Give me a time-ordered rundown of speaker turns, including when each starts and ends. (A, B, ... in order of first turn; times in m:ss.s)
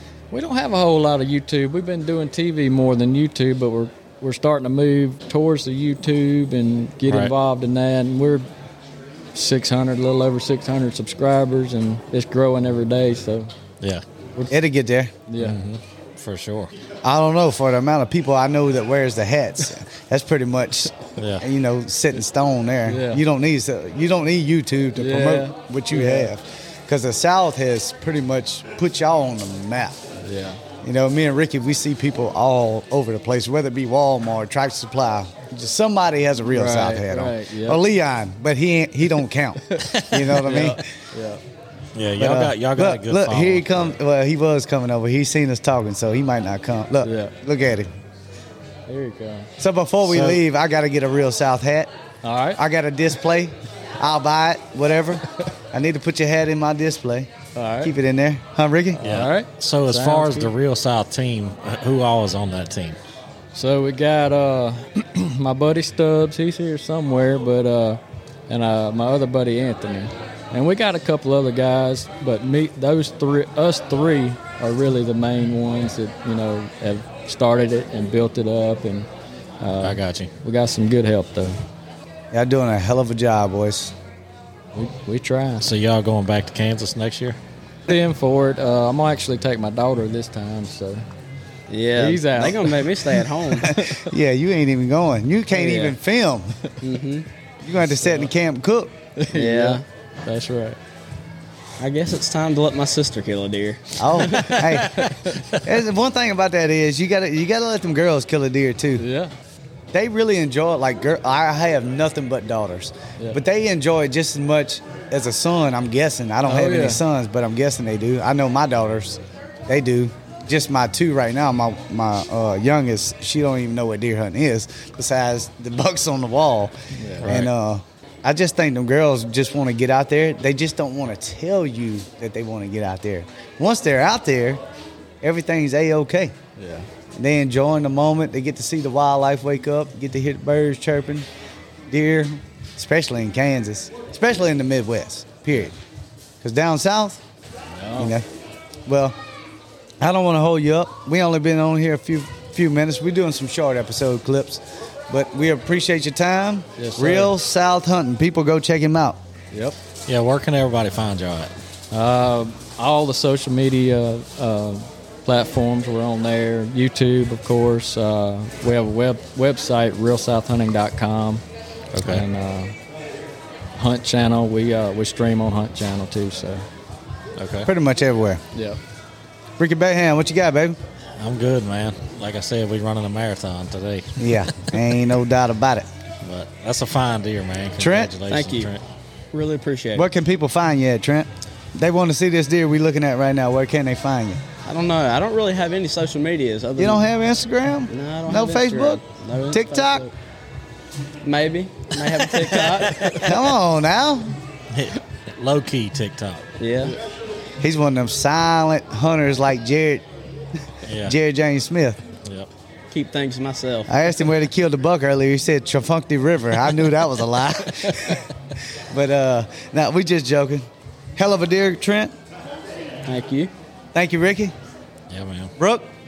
0:00.3-0:08.5 A
0:07.0-0:07.3 B
0:09.3-0:13.5 A
0:14.4-0:14.6 A
0:14.5-0:15.1 C
0:15.3-0:15.6 A
0:15.4-0:16.7 B
0:17.0-0:30.0 C
0:21.2-0:21.4 B
0:22.9-0:23.2 A
0:25.0-0:26.3 A
0:30.2-0:30.6 A
0:30.8-0:40.8 C
0:36.5-0:37.8 A
0:39.8-0:41.4 A
0:42.0-0:44.0 B
0:42.2-0:47.9 C
0:47.0-0:47.4 A
0:48.9-0:49.5 A
0:49.6-0:51.9 C
0:50.0-0:50.4 B
0:52.2-0:52.6 A
0:52.6-0:57.3 C
0:57.6-0:58.0 A
0:57.8-0:59.0 C
0:59.0-1:00.5 A
0:59.0-1:03.0 B
1:03.5-1:19.1 A
1:19.6-1:21.6 A
1:19.8-1:20.3 B
1:22.3-1:23.9 C
1:24.7-1:25.7 A
1:25.6-1:27.4 B
1:27.9-1:31.0 A
1:31.7-1:33.8 D
1:32.0-1:34.1 A
1:33.7-1:36.6 C
1:35.5-1:36.0 D
1:36.8-1:37.3 D
1:37.6-1:38.9 C
1:39.2-1:40.8 A
1:39.3-1:39.8 D
1:41.8-1:44.5 D
1:44.0-1:45.0 C
1:44.2-1:45.7 A
1:45.6-1:49.0 C
1:49.0-1:49.3 A
1:49.9-2:14.6 C
1:56.4-1:57.0 A
2:07.0-2:07.3 A
2:07.2-2:07.5 B
2:15.2-2:16.3 C
2:16.6-2:16.9 A
2:17.2-2:21.3 C
2:21.9-2:25.8 C
2:26.4-2:27.2 C
2:27.7-2:28.2 A
2:28.0-2:28.2 C
2:28.9-2:29.2 C
2:30.0-2:39.2 C
2:36.8-2:37.3 A
2:39.5-2:39.8 A
2:40.1-2:41.5 B
2:41.9-2:52.7 A
2:51.9-2:52.2 B
2:53.8-2:56.6 A
2:57.4-2:57.7 B
2:57.6-2:58.4 C
2:58.5-2:58.8 A
2:59.6-3:00.8 C
3:01.2-3:04.8 B
3:04.2-3:05.9 C
3:06.2-3:08.8 B
3:07.8-3:08.1 C
3:08.3-3:08.7 D
3:09.3-3:10.1 D
3:09.9-3:14.4 C
3:14.6-3:17.0 D
3:16.8-3:20.0 C
3:17.9-3:20.1 D
3:21.2-3:23.3 D
3:22.5-3:23.4 B
3:23.2-3:24.3 C
3:24.7-3:26.4 B
3:26.6-3:27.0 D
3:27.6-3:30.0 C
3:30.8-3:31.1 B
3:31.0-3:32.0 C
3:32.2-3:32.5 B
3:32.9-3:33.9 D
3:33.9-3:38.2 C
3:38.9-3:42.1 C
3:43.1-3:43.5 D
3:43.9-3:44.5 C
3:45.1-3:45.5 B
3:45.6-3:45.9 C